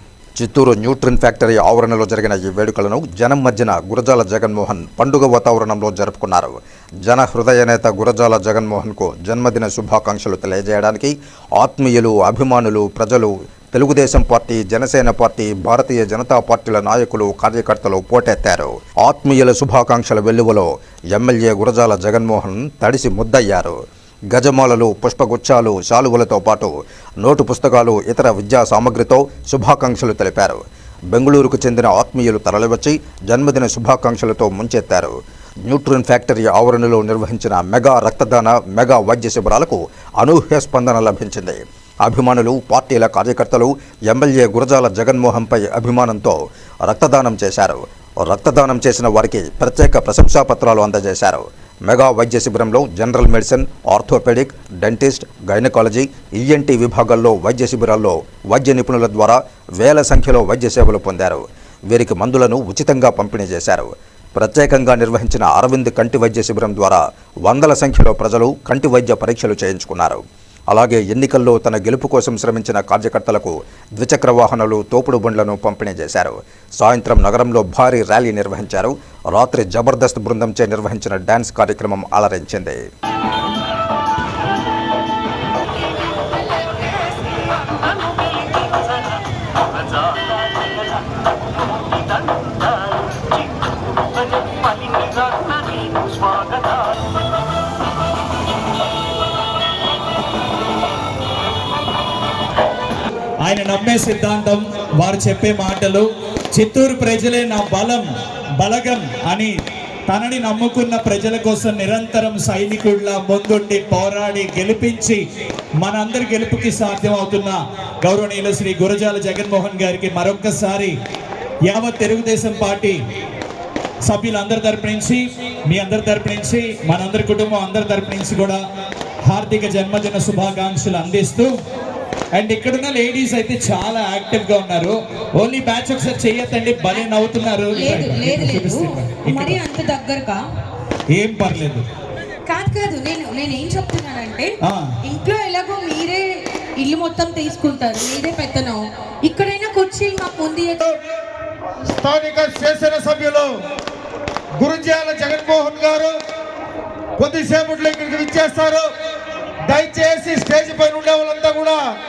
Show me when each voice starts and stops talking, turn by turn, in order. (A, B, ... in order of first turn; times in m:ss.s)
0:00.4-0:23.8 A
0:24.3-0:30.6 A
0:31.1-0:35.2 A
0:35.7-1:22.8 A
1:28.1-1:28.9 B
1:29.8-1:33.2 B
1:34.3-1:36.8 B
1:43.4-1:48.1 C
1:48.6-1:49.6 C
1:50.1-1:55.2 C
1:55.8-2:00.9 C
2:01.7-2:03.0 C
2:04.1-2:08.6 C
2:09.3-2:11.5 C
2:12.4-2:19.6 C
2:17.7-2:20.4 D
2:21.1-2:21.8 C
2:22.5-2:24.5 D
2:25.0-2:26.2 D
2:26.8-2:31.0 D
2:31.9-2:33.5 E
2:34.6-2:36.2 E
2:37.2-2:38.9 E
2:39.6-2:41.8 E